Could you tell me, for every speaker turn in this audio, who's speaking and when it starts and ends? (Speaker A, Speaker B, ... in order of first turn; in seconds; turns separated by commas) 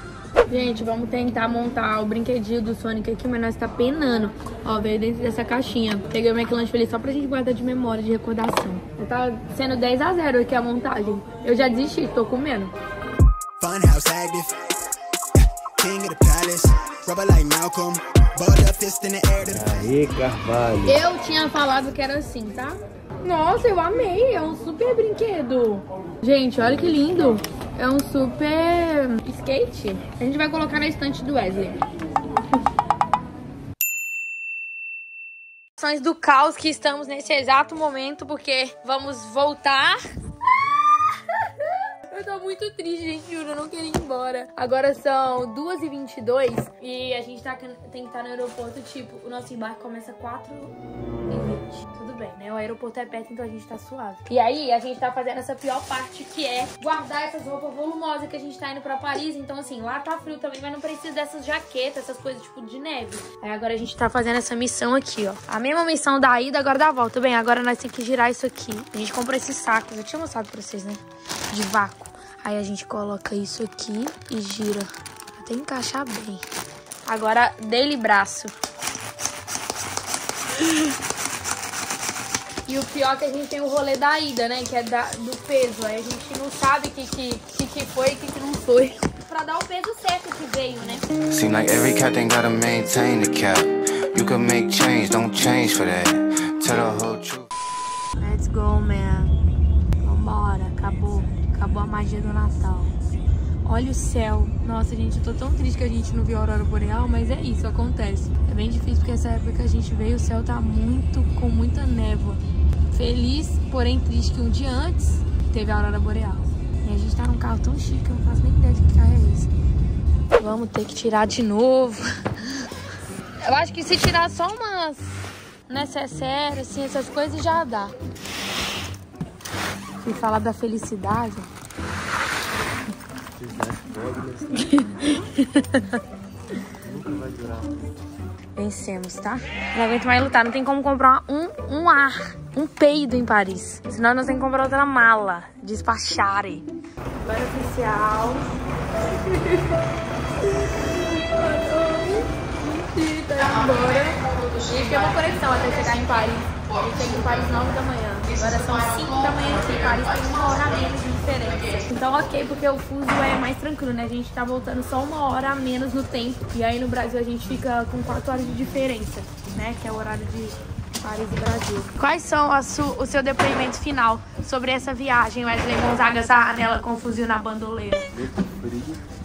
Speaker A: 0.5-12.7, Speaker B: 13.6-14.5, Speaker B: 15.8-19.7, Speaker C: 19.5-21.0, Speaker A: 20.9-31.8, Speaker A: 35.8-40.0, Speaker A: 41.1-50.7, Speaker A: 51.3-76.4, Speaker A: 77.0-78.5, Speaker A: 82.7-91.1, Speaker D: 91.3-97.5, Speaker A: 98.2-99.4, Speaker A: 100.0-103.0, Speaker A: 103.6-112.4, Speaker A: 112.9-119.5, Speaker A: 120.4-122.0, Speaker A: 123.4-125.1, Speaker A: 125.7-127.9, Speaker A: 130.0-131.5, Speaker C: 133.3-134.9, Speaker A: 134.6-136.0, Speaker C: 136.8-137.9, Speaker A: 138.6-146.6, Speaker A: 147.2-149.8, Speaker A: 150.5-178.1, Speaker C: 178.1-179.0